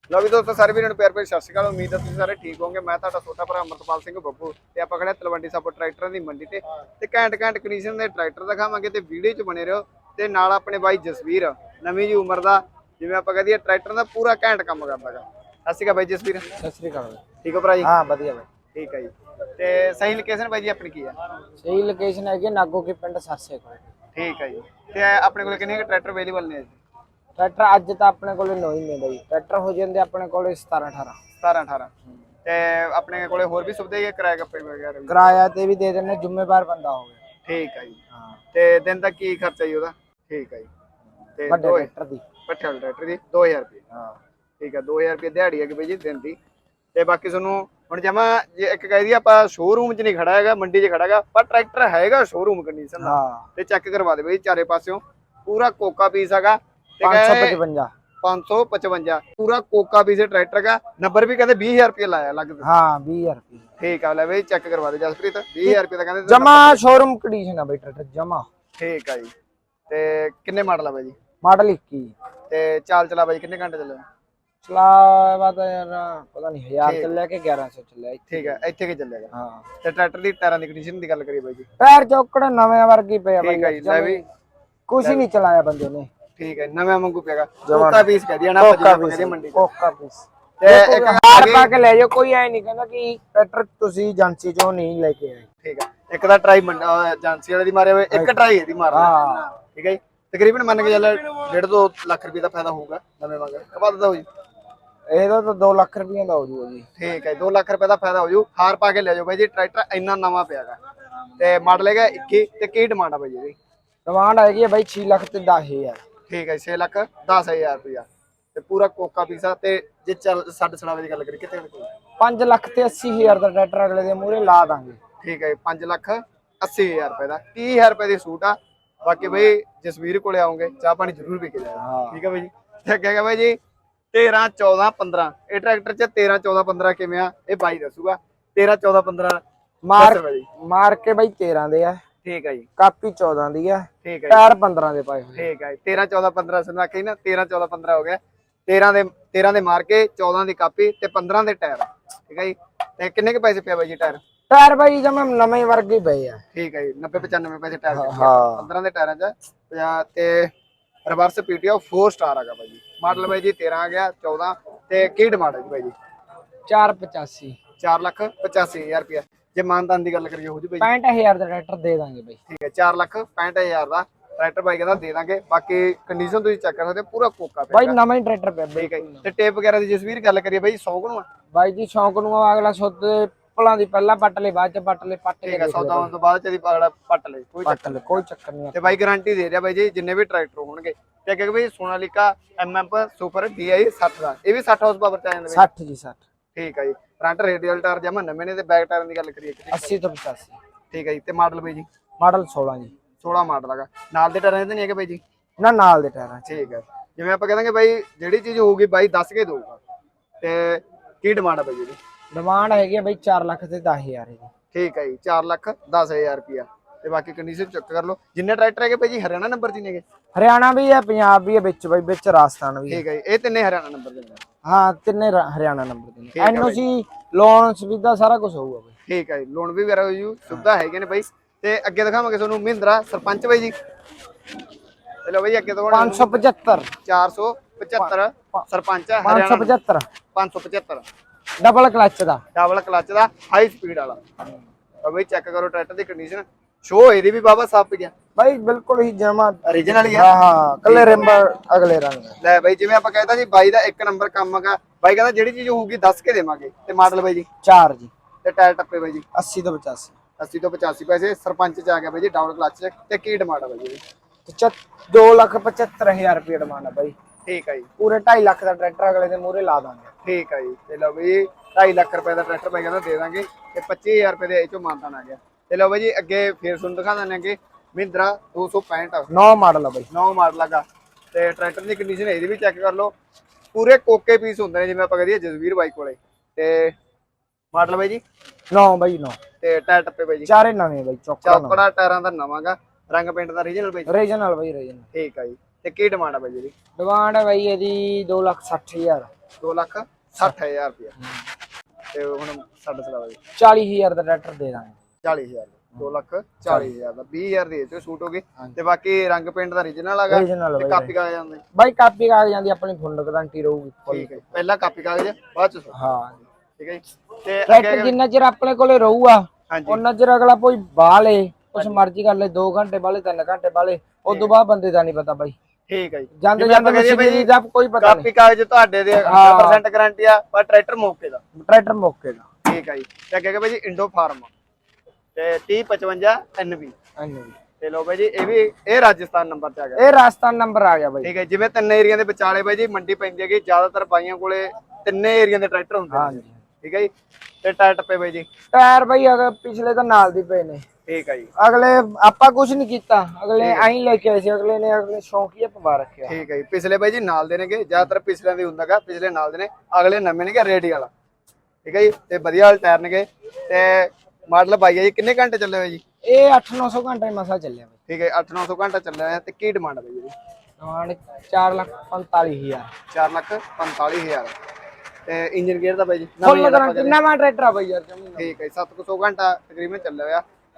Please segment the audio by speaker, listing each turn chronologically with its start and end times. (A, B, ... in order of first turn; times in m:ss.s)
0:00.1-0:16.4 A
0:16.6-0:17.2 B
0:17.4-0:17.9 A
0:17.8-0:18.5 B
0:18.8-0:21.2 A
0:21.6-0:23.8 B
0:24.2-0:26.8 A
0:27.4-0:31.2 B
0:31.4-0:31.9 A
0:32.4-0:35.2 A
0:35.1-0:37.2 B
0:37.4-0:38.0 A
0:38.5-0:40.7 A
0:41.4-0:41.9 A
0:41.5-0:42.2 B
0:42.5-0:43.8 A
0:43.9-0:44.2 B
0:44.6-0:46.4 A
0:47.0-0:57.6 A
0:53.0-0:53.5 B
0:57.0-0:57.9 B
0:58.2-1:02.7 A
1:02.6-1:03.7 B
1:03.8-1:06.8 A
1:05.7-1:08.5 B
1:08.8-1:09.3 A
1:09.9-1:11.2 A
1:11.4-1:12.1 B
1:12.5-1:14.0 A
1:14.6-1:18.6 B
1:16.8-1:17.1 A
1:18.3-1:21.7 A
1:19.3-1:19.6 B
1:21.8-1:24.2 B
1:23.4-1:24.2 A
1:24.9-1:26.1 B
1:26.4-1:29.6 A
1:27.7-1:28.1 B
1:28.6-1:35.4 B
1:30.6-1:31.7 A
1:35.6-1:39.1 A
1:38.9-1:39.5 B
1:39.8-1:44.2 A
1:45.1-1:46.9 B
1:47.0-1:50.8 A
1:51.4-1:53.6 A
1:54.1-1:56.0 B
1:56.3-2:01.9 A
2:02.2-2:05.0 B
2:05.2-2:13.6 A
2:11.8-2:12.2 B
2:14.1-2:19.4 A
2:19.9-2:22.0 B
2:20.0-2:20.5 A
2:22.2-2:22.7 A
2:22.8-2:25.4 B
2:24.0-2:24.4 A
2:25.4-2:34.2 A
2:34.5-2:36.4 B
2:36.5-2:40.5 A
2:37.9-2:38.7 B
2:41.1-2:45.9 A
2:46.7-2:47.6 B
2:47.8-2:50.9 A
2:50.8-2:52.4 B
2:52.5-2:58.0 A
2:57.7-2:59.3 B
2:58.8-3:01.2 A
3:01.5-3:06.1 B
3:05.4-3:08.2 A
3:07.6-3:09.0 B
3:08.7-3:15.7 A
3:15.5-3:16.2 B
3:16.6-3:20.0 A
3:19.7-3:20.6 B
3:20.9-3:21.9 A
3:22.2-3:22.9 B
3:23.2-3:25.2 A
3:25.6-3:26.6 B
3:26.5-3:29.8 A
3:30.4-3:32.0 A
3:32.3-3:34.5 B
3:34.7-3:40.0 A
3:40.3-3:43.0 B
3:42.9-3:44.4 A
3:44.6-3:48.9 B
3:46.3-3:46.8 A
3:49.1-3:53.7 A
3:55.2-3:56.4 A
3:55.9-3:56.9 B
3:57.1-3:59.8 A
3:58.0-3:58.6 B
3:59.2-4:00.0 B
4:00.4-4:01.0 A
4:01.6-4:02.4 B
4:02.5-4:04.2 A
4:05.0-4:08.1 A
4:08.4-4:12.4 B
4:09.6-4:10.3 A
4:10.8-4:11.3 A
4:12.4-4:17.5 A
4:17.6-4:18.1 B
4:18.4-4:19.2 A
4:19.3-4:20.1 B
4:20.4-4:24.0 A
4:24.4-4:27.2 B
4:27.4-4:27.9 A
4:28.0-4:30.1 B
4:30.2-4:39.3 A
4:39.3-4:40.1 B
4:40.1-4:43.1 A
4:43.7-4:46.9 A
4:47.7-4:48.2 A
4:48.7-4:49.4 B
4:49.6-4:50.5 A
4:50.5-4:51.8 B
4:51.4-4:54.1 A
4:54.1-4:55.1 B
4:55.1-4:56.7 A
4:57.0-4:59.3 B
4:59.6-5:01.1 A
5:02.1-5:03.4 A
5:03.6-5:05.0 B
5:05.2-5:11.6 A
5:06.6-5:06.9 B
5:10.3-5:11.1 B
5:11.8-5:14.4 B
5:14.1-5:15.9 A
5:15.9-5:16.4 B
5:16.8-5:18.1 A
5:17.7-5:25.5 B
5:19.7-5:20.0 A
5:24.3-5:24.5 A
5:25.9-5:27.5 A
5:26.3-5:28.3 B
5:28.0-5:31.4 A
5:29.2-5:29.8 B
5:31.5-5:32.5 B
5:32.6-5:34.5 A
5:35.4-5:36.9 A
5:37.2-5:37.6 B
5:37.8-5:40.0 A
5:40.0-5:41.3 B
5:41.2-5:47.1 A
5:46.1-5:46.6 B
5:47.6-5:48.4 A
5:48.7-5:50.8 B
5:51.1-5:51.5 A
5:51.6-5:56.4 B
5:53.6-5:53.9 A
5:56.3-6:01.1 A
6:01.8-6:06.0 A
6:06.3-6:07.9 B
6:08.1-6:10.3 A
6:10.8-6:12.9 B
6:13.1-6:14.5 A
6:15.3-6:17.2 A
6:16.4-6:18.5 B
6:18.4-6:20.4 A